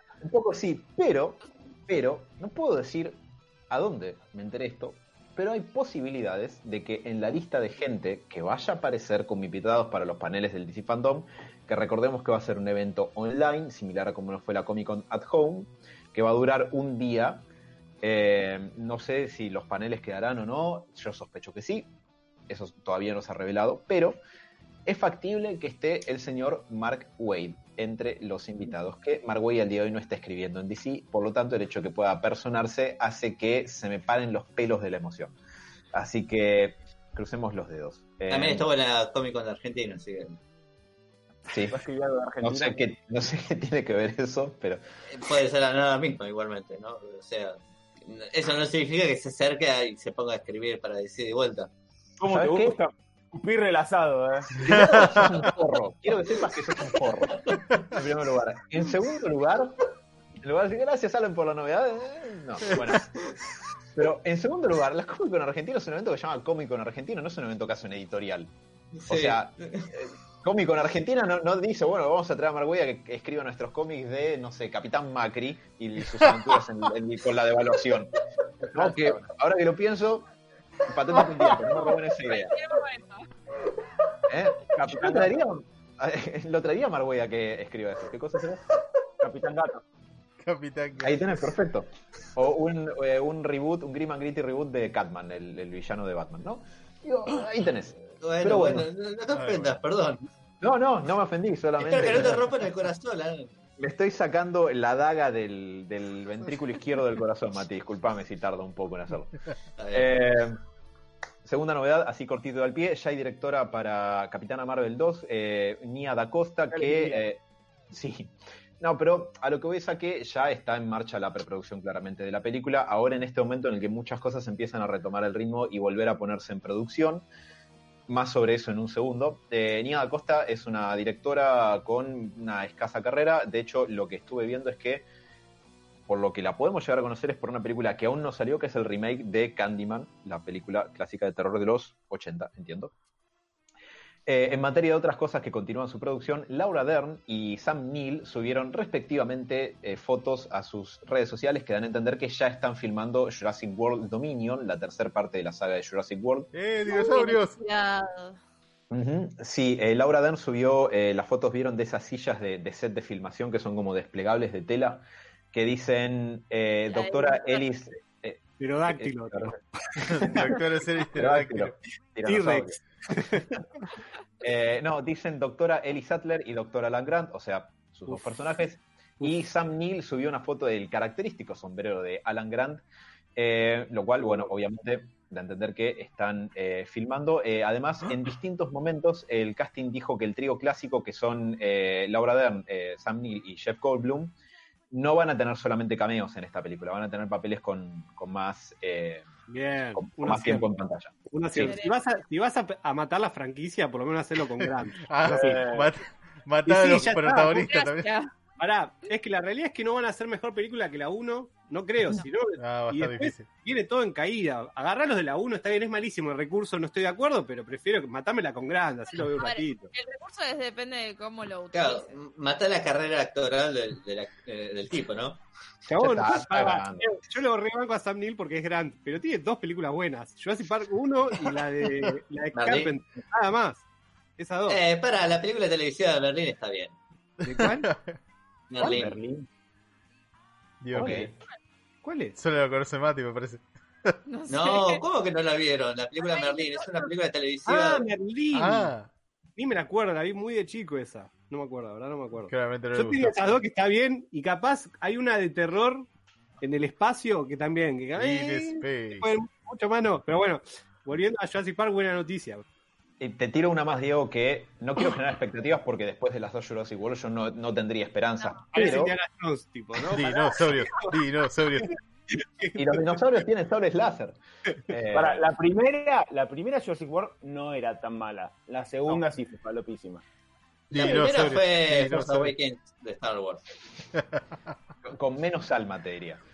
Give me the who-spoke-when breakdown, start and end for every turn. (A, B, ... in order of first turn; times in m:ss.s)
0:00.2-0:17.5 A
0:18.0-0:21.9 A
0:22.5-0:24.2 A
0:24.9-0:35.4 A
0:35.9-0:38.6 A
0:38.3-0:40.4 B
0:41.5-0:41.8 A
0:41.7-0:42.8 C
0:42.4-0:44.8 A
0:45.1-0:51.7 B
0:52.2-0:55.3 C
0:52.3-0:52.8 A
0:54.6-0:59.8 A
0:54.7-0:55.3 D
1:00.4-1:03.2 A
1:03.9-1:08.5 A
1:09.0-1:09.9 B
1:09.1-1:20.3 A
1:20.8-1:22.6 A
1:22.1-1:23.3 E
1:24.3-1:28.8 A
1:24.8-1:25.3 C
1:29.2-1:29.8 C
1:30.4-1:31.4 D
1:31.0-1:38.9 A
1:38.2-1:40.3 B
1:39.4-1:39.7 D
1:40.6-1:42.5 A
1:41.8-1:43.5 B
1:43.8-1:49.4 A
1:49.8-1:50.1 B
1:49.9-1:50.6 A
1:51.4-2:07.3 A
1:56.7-1:57.2 C
2:08.1-2:15.1 A
2:16.1-2:22.9 A
2:24.3-2:36.5 A
2:36.5-2:37.5 D
2:36.9-2:38.4 E
2:38.9-2:50.6 A
2:46.9-2:47.6 E
2:48.6-2:50.3 F
2:50.1-2:51.8 D
2:51.1-2:53.6 A
2:52.2-2:53.5 F
2:54.4-3:02.8 A
3:03.4-3:14.3 A
3:14.9-3:19.3 A
3:19.5-3:20.7 F
3:20.0-3:21.8 A
3:21.3-3:25.7 F
3:21.6-3:22.0 E
3:24.6-3:28.1 D
3:25.2-3:25.9 A
3:26.7-3:27.7 F
3:27.6-3:28.3 E
3:28.6-3:39.9 F
3:32.6-3:33.5 D
3:39.3-3:42.1 E
3:41.7-3:45.4 B
3:45.9-3:53.8 F
3:46.0-3:47.1 A
3:52.6-3:52.9 B
3:54.4-3:54.8 F
3:54.7-3:57.0 B
3:57.4-3:58.2 D
3:57.4-3:57.9 F
3:58.7-3:59.2 B
3:58.8-3:59.4 A
4:00.8-4:01.3 D
4:00.9-4:01.3 A
4:02.0-4:02.4 F
4:02.4-4:04.2 D
4:04.3-4:05.0 E
4:04.5-4:08.1 B
4:06.2-4:06.9 E
4:07.7-4:08.9 F
4:08.5-4:09.1 D
4:09.6-4:16.1 F
4:12.5-4:13.6 D
4:16.6-4:22.6 F
4:18.2-4:19.3 D
4:23.2-4:29.2 A
4:28.7-4:31.2 F
4:30.1-4:31.9 D
4:31.8-4:33.0 F
4:32.8-4:35.5 A
4:35.1-4:40.2 C
4:40.9-4:42.5 D
4:40.9-4:43.6 B
4:45.0-4:46.4 A